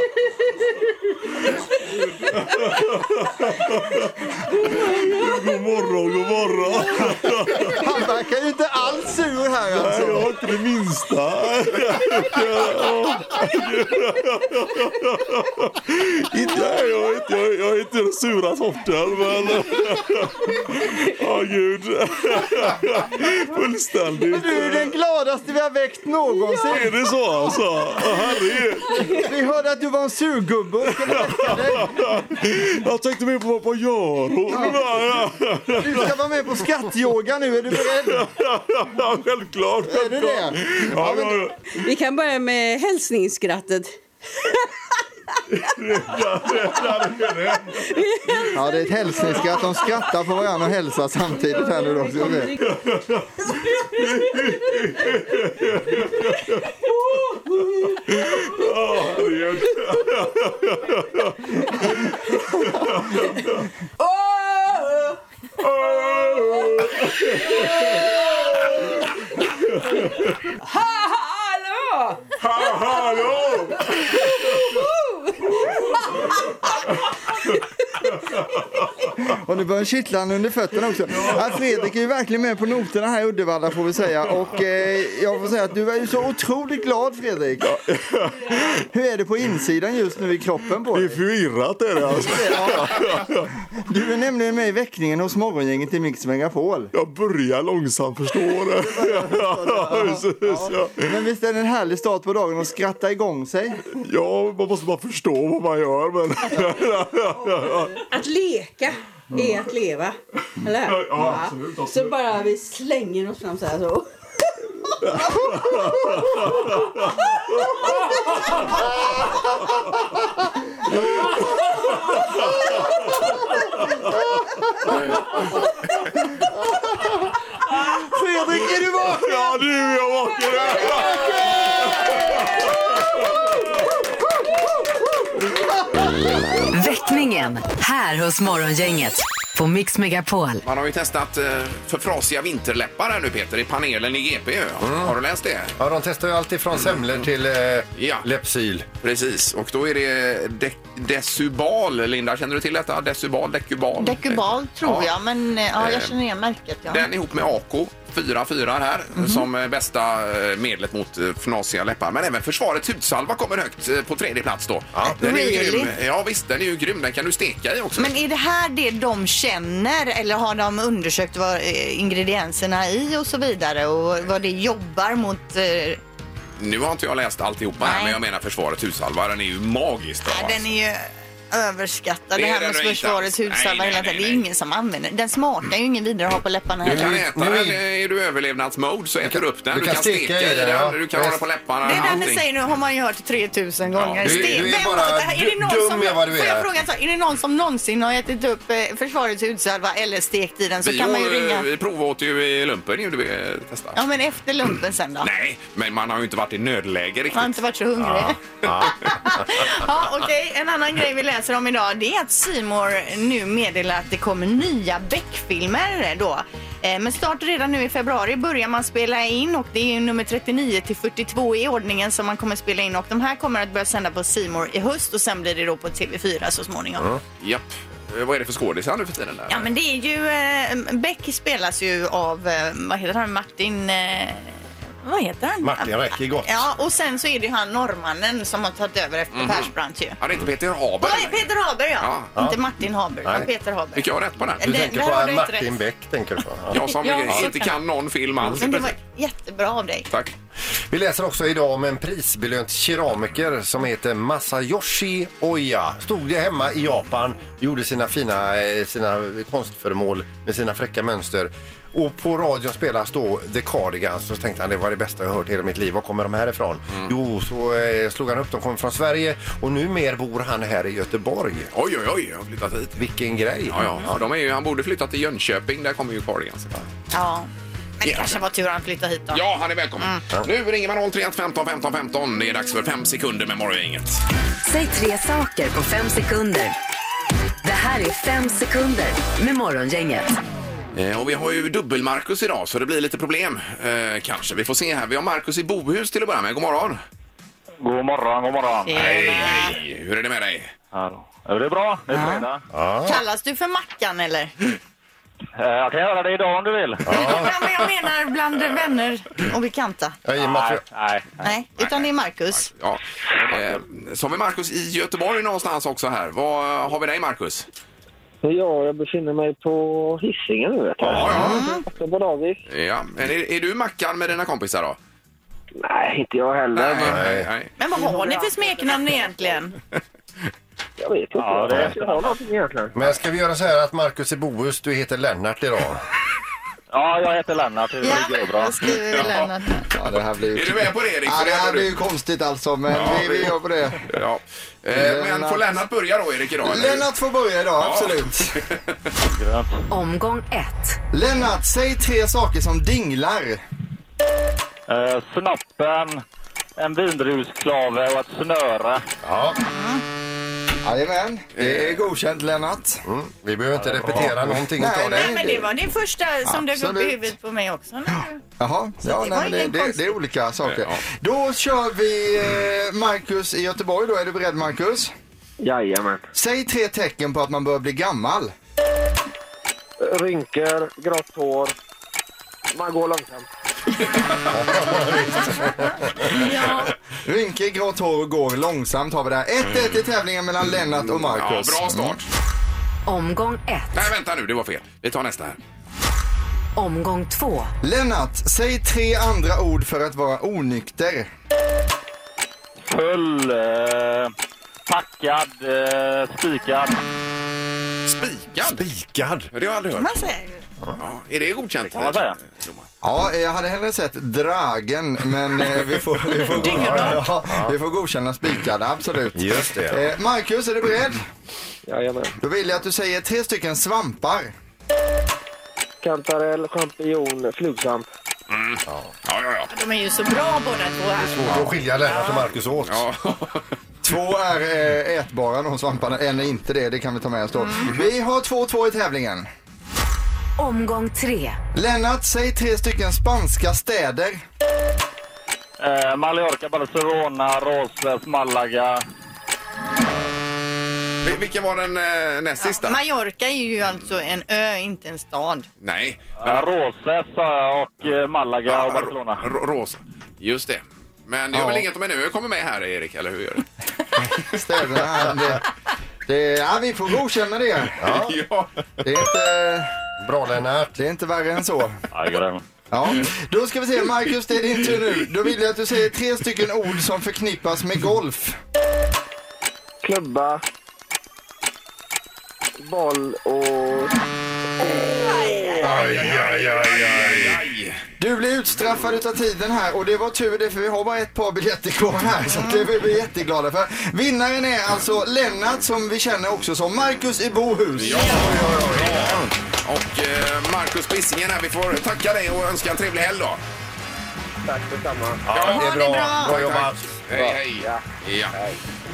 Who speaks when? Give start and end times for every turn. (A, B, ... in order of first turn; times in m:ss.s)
0:01.8-0:07.8 A
0:07.7-0:10.3 B
0:09.7-0:24.9 A
0:24.3-0:27.0 B
0:26.7-0:29.2 A
0:29.0-0:32.1 B
0:31.0-0:36.2 A
0:34.5-0:35.0 B
0:35.8-0:38.3 B
0:38.0-0:41.7 A
0:39.9-0:41.4 B
0:41.8-0:44.0 C
0:45.5-0:47.8 A
0:47.9-0:48.6 C
0:48.5-0:52.6 B
0:49.1-0:49.5 A
0:49.4-0:49.7 C
0:51.4-0:52.7 C
0:52.5-0:56.7 A
0:57.1-0:58.0 C
0:57.4-1:03.7 A
1:04.0-1:05.2 C
1:05.6-1:09.0 A
1:07.6-1:07.9 C
1:09.7-1:10.5 A
1:10.7-1:13.3 C
1:12.4-1:14.8 A
1:13.9-1:16.3 C
1:15.6-1:19.1 A
1:19.2-1:27.8 B
1:21.1-1:21.8 A
1:27.6-1:28.8 A
1:28.9-1:31.2 B
1:30.9-1:33.5 A
1:32.1-1:33.2 B
1:33.8-1:36.9 B
1:36.9-1:41.1 A
1:38.8-1:43.8 B
1:43.9-1:48.1 A
1:48.0-1:54.1 C
1:50.8-1:52.4 A
1:55.1-1:57.9 A
2:00.9-2:04.1 A
2:08.0-2:09.5 B
2:08.5-2:13.5 A
2:10.8-2:11.3 B
2:16.7-2:20.6 D
2:20.6-2:25.8 E
2:24.8-2:25.2 F
2:25.8-2:28.9 F
2:26.7-2:27.0 E
2:28.0-2:28.3 E
2:29.0-2:35.1 E
2:34.0-2:37.1 G
2:35.8-2:36.1 E
2:36.9-2:48.1 E
2:39.2-2:39.4 G
2:45.1-2:45.9 G
2:48.0-2:56.0 G
2:56.6-3:00.6 E
2:57.8-2:58.2 G
3:00.3-3:07.1 G
3:02.4-3:04.4 E
3:06.8-3:12.5 E
3:06.8-3:07.8 F
3:09.2-3:12.2 F
3:11.8-3:21.7 G
3:14.0-3:14.7 E
3:14.2-3:16.7 F
3:20.8-3:24.0 E
3:24.0-3:25.3 G
3:25.2-3:29.8 E
3:27.3-3:28.4 G
3:28.6-3:29.2 F
3:29.0-3:47.0 G
3:47.0-3:47.2 F
3:47.4-3:49.7 E
3:49.5-4:00.2 G
3:55.6-3:56.6 F
3:59.3-4:01.5 E
4:01.0-4:04.1 G
4:02.0-4:02.3 E
4:04.0-4:04.6 E
4:04.6-4:07.5 F
4:04.6-4:05.8 G
4:06.7-4:08.9 E
4:06.8-4:07.8 G
4:08.4-4:10.1 G
4:10.9-4:31.7 F
4:26.9-4:27.2 E
4:31.7-4:33.0 E
4:33.0-4:34.2 F
4:33.7-4:36.8 E
4:37.1-4:39.4 G
4:38.0-4:38.4 E
4:39.3-4:44.2 E
4:44.6-4:46.8 D
4:47.6-4:50.3 D
4:50.9-4:57.0 E
4:57.8-4:59.1 H
4:58.9-4:59.8 G
4:58.9-5:00.7 E
5:00.9-5:02.7 H
5:02.1-5:02.5 G
5:02.7-5:03.2 F
5:03.0-5:04.5 G
5:05.6-5:07.2 H
5:07.1-5:07.5 F
5:07.1-5:10.2 G
5:10.2-5:10.8 F
5:10.4-5:11.5 H
5:11.4-5:12.7 G
5:11.8-5:17.7 E
5:18.4-5:22.6 I
5:21.0-5:21.7 E
5:21.1-5:21.5 F
5:21.3-5:21.8 G
5:22.7-5:25.0 E
5:25.8-5:27.2 I
5:26.7-5:27.8 E
5:27.0-5:27.5 F
5:27.8-5:29.8 G
5:28.1-5:29.4 I
5:31.0-5:33.0 I
5:31.4-5:32.4 H
5:33.0-5:36.1 F
5:36.9-5:38.8 H
5:38.0-5:39.9 G
5:39.0-5:39.5 E
5:39.9-5:44.1 B
5:40.5-5:41.9 E
5:42.9-5:43.5 E
5:44.1-5:47.0 E
5:44.9-5:45.6 B
5:46.6-5:48.6 B
5:47.8-5:48.8 E
5:49.3-5:49.8 H
5:49.9-5:51.0 D
5:51.1-5:53.6 B
5:54.9-5:56.2 H
5:56.8-5:59.1 H
5:59.2-5:59.6 F
5:59.7-6:00.0 G
6:00.8-6:03.0 B
6:01.6-6:02.0 E
6:03.0-6:05.5 F
6:04.1-6:05.7 B
6:05.1-6:08.4 G
6:06.4-6:07.4 B
6:08.6-6:15.1 B
6:09.0-6:10.1 G
6:10.6-6:11.0 E
6:15.6-6:16.3 I
6:16.3-6:18.5 B
6:20.0-6:21.8 I
6:22.7-6:23.5 I
6:24.5-6:26.3 F
6:26.3-6:26.9 G
6:27.2-6:32.2 B
6:31.1-6:32.3 E
6:33.1-6:34.1 D
6:33.9-6:35.6 E
6:36.8-6:37.7 D
6:37.8-6:41.3 B
6:42.8-6:44.3 H
6:44.9-6:47.0 H
6:48.1-6:48.9 E
6:48.6-6:49.5 F
6:49.5-6:50.3 E
6:50.0-6:50.6 G
6:51.0-6:52.8 E
6:51.9-6:52.4 H
6:53.0-7:01.3 B
6:56.5-6:57.2 G
6:56.6-6:57.7 F
6:59.4-7:00.0 F
7:01.9-7:02.4 I
7:02.4-7:04.5 B
7:06.0-7:08.1 I
7:08.5-7:09.7 E
7:09.7-7:11.7 G
7:11.2-7:13.0 F
7:12.2-7:13.6 E
7:14.0-7:19.5 B
7:20.6-7:21.6 D
7:21.8-7:24.4 B
7:25.8-7:29.0 H
7:31.2-7:33.0 E
7:32.6-7:35.7 G
7:35.8-7:36.6 E
7:36.4-7:39.5 H
7:38.6-7:43.6 E
7:41.5-7:41.9 B
7:44.5-7:45.6 B
7:46.3-7:48.0 B
7:48.0-7:48.4 F
7:48.1-7:49.2 E
7:49.0-7:49.9 B
7:50.2-7:51.0 F
7:51.0-7:52.0 B
7:52.1-7:52.6 H
7:52.9-7:58.6 B
8:00.0-8:00.6 I
8:02.8-8:04.1 I
8:04.8-8:05.8 I
8:05.1-8:05.8 G
8:05.8-8:08.0 E
8:05.8-8:07.6 F
8:08.2-8:18.3 B
8:12.6-8:12.8 G
8:18.0-8:23.6 E
8:18.1-8:19.5 F
8:24.7-8:25.4 I
8:25.5-8:27.5 F
8:25.5-8:28.6 E
8:25.6-8:26.6 G
8:27.4-8:28.0 I